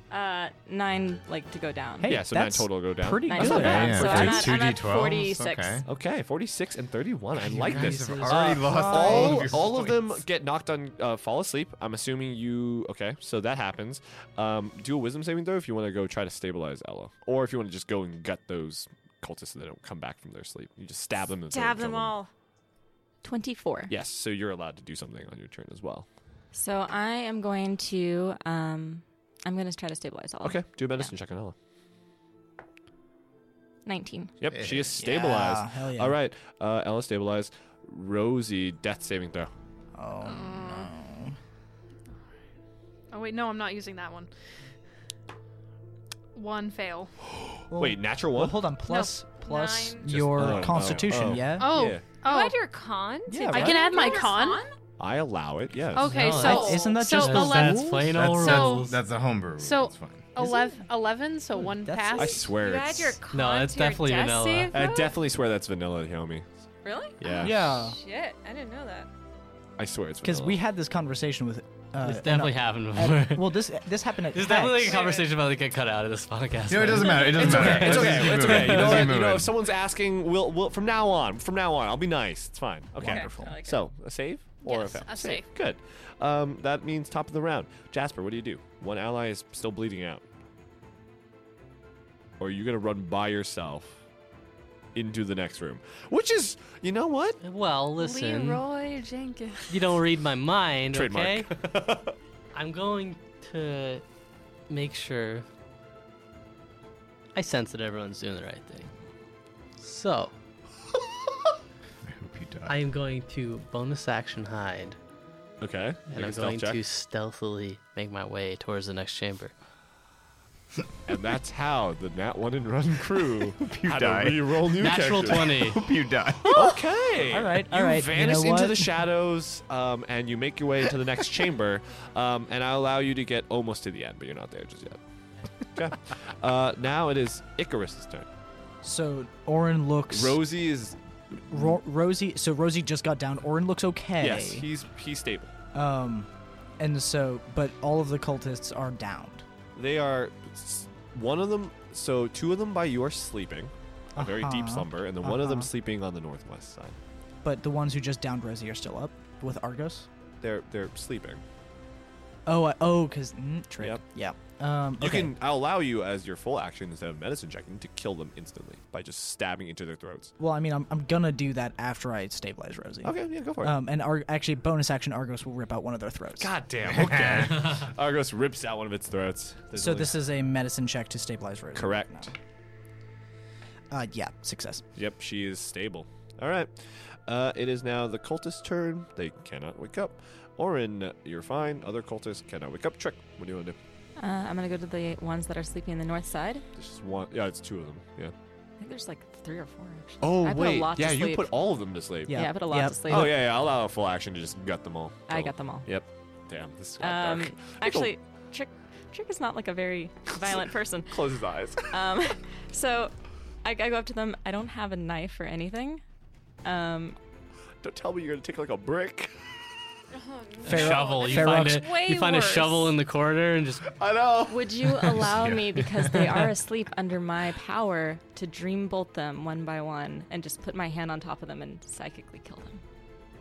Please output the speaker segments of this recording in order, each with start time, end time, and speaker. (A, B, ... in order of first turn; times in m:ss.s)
0:00.1-0:02.2 A
0:02.0-0:04.5 B
0:02.0-0:04.5 C
0:03.2-0:05.8 A
0:03.4-0:05.8 D
0:05.8-0:22.2 C
0:07.3-0:10.2 D
0:07.5-0:09.7 B
0:21.5-0:22.3 E
0:23.2-0:23.9 A
0:23.9-0:26.1 C
0:26.5-0:31.1 A
0:30.4-0:31.5 C
0:33.8-0:34.4 A
0:34.4-0:39.5 C
0:34.5-0:35.0 D
0:35.0-0:36.2 B
0:39.9-0:41.4 B
0:40.2-0:40.9 F
0:43.1-0:44.3 F
0:46.3-0:47.1 F
0:47.7-0:48.7 C
0:47.7-0:51.8 B
0:48.9-0:50.1 E
0:50.1-0:51.4 D
0:50.2-0:52.0 C
0:51.6-0:52.6 F
0:52.2-0:54.7 E
0:53.3-0:54.0 B
0:53.5-0:54.6 F
0:55.0-0:56.2 C
0:55.9-0:58.9 F
0:56.0-0:59.0 G
0:56.3-0:58.1 B
0:56.3-0:57.0 E
0:58.1-1:00.3 D
0:59.6-1:02.5 F
1:00.4-1:00.8 B
1:01.5-1:02.4 B
1:02.1-1:03.2 C
1:02.6-1:05.1 E
1:03.3-1:04.8 G
1:04.7-1:06.5 C
1:06.8-1:07.2 A
1:07.2-1:07.5 C
1:07.2-1:09.1 E
1:07.4-1:08.0 B
1:09.8-1:10.6 C
1:10.2-1:15.0 B
1:12.0-1:13.6 G
1:14.3-1:19.2 G
1:14.8-1:15.3 E
1:16.7-1:19.5 D
1:17.4-1:18.1 B
1:17.4-1:30.2 C
1:23.0-1:23.9 A
1:23.0-1:23.5 B
1:24.6-1:25.5 F
1:32.4-1:34.0 C
1:34.9-1:37.4 C
1:37.4-1:38.6 G
1:38.0-1:39.9 F
1:39.7-1:41.5 G
1:40.9-1:42.2 C
1:42.5-1:44.0 G
1:44.7-1:45.4 G
1:47.3-1:48.9 G
1:49.8-1:50.3 G
1:52.0-1:52.8 D
1:52.6-1:55.0 G
1:55.6-1:56.8 C
1:56.1-1:59.5 G
2:01.1-2:05.7 C
2:03.5-2:04.6 D
2:04.7-2:05.9 G
2:05.5-2:06.7 D
2:06.5-2:15.0 C
2:07.2-2:09.0 B
2:15.7-2:18.3 C
2:18.8-2:20.4 B
2:20.1-2:21.0 C
2:21.5-2:24.7 B
2:24.2-2:25.5 C
2:25.7-2:29.4 B
2:29.7-2:37.0 C
2:34.2-2:35.7 B
2:37.4-2:40.1 B
2:40.4-2:41.4 C
2:42.4-2:45.4 B
2:45.0-2:50.3 C
2:50.4-2:56.5 B
2:53.0-2:53.8 C
2:56.4-3:00.2 C
2:56.8-2:57.8 D
2:59.7-3:02.3 B
3:01.7-3:02.3 C
3:03.9-3:04.8 B
3:04.9-3:13.8 C
3:14.2-3:16.6 A
3:16.8-3:18.3 C
3:18.8-3:21.5 A
3:20.2-3:22.5 C
3:22.3-3:23.3 B
3:22.3-3:23.4 A
3:23.1-3:28.1 C
3:25.3-3:25.9 A
3:27.0-3:36.0 A
3:30.3-3:32.0 C
3:36.6-3:37.2 A
3:37.8-3:39.5 C
3:40.1-3:42.9 E
3:40.6-3:43.9 G
3:40.6-3:42.0 B
3:40.7-3:41.2 C
3:43.9-3:45.2 C
3:44.5-3:52.8 A
3:45.0-3:46.4 D